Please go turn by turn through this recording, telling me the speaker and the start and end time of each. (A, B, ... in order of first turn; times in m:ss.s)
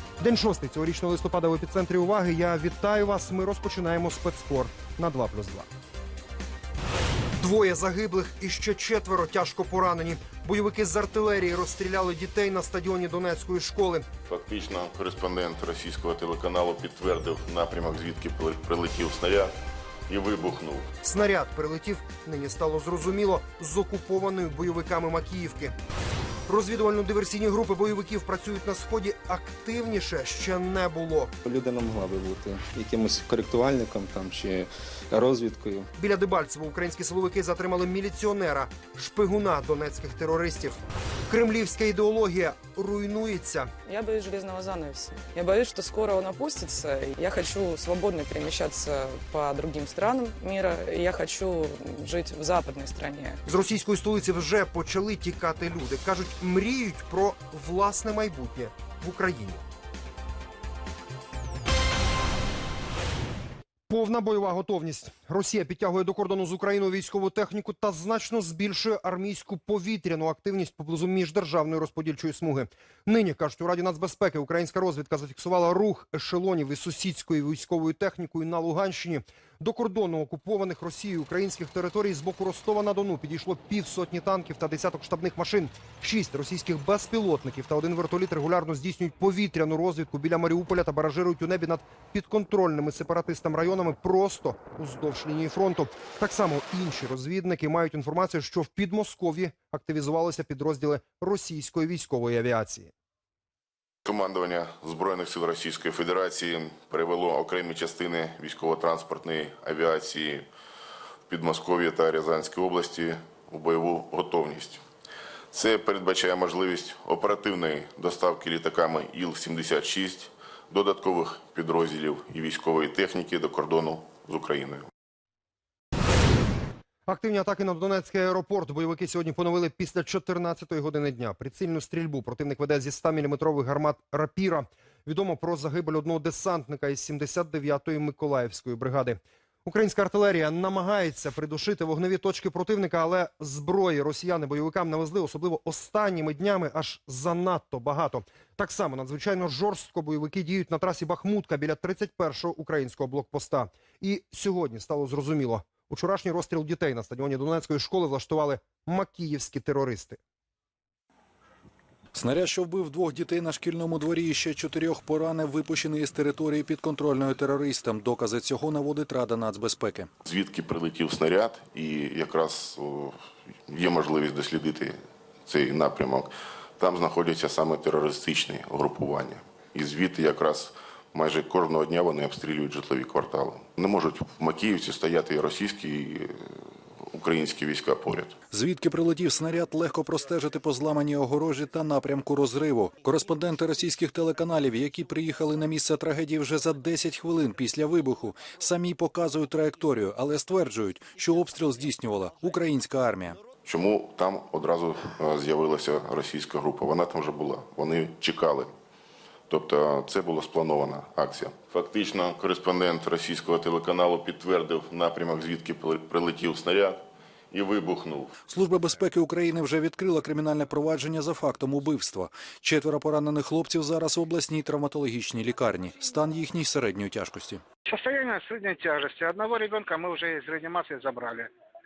0:00.2-0:05.7 A
0:07.4-0:14.1 A
0:14.3-0:19.5 B
0:20.1-0:20.9 B
0:21.0-0:25.8 A
0:26.4-0:31.3 A
0:31.4-0:35.9 C
0:36.0-0:43.7 A
0:43.9-0:53.4 D
0:53.4-0:59.6 A
1:03.9-1:42.9 A
1:44.0-1:50.4 B
1:51.3-1:54.8 B
1:55.5-2:04.9 B
2:07.1-2:40.2 A
2:42.1-2:50.1 E
2:50.2-2:53.2 B
2:53.7-3:08.3 B
3:08.5-3:23.4 E
3:23.6-3:28.7 B
3:29.5-3:38.3 B
3:38.5-3:47.6 E
3:47.8-3:51.5 F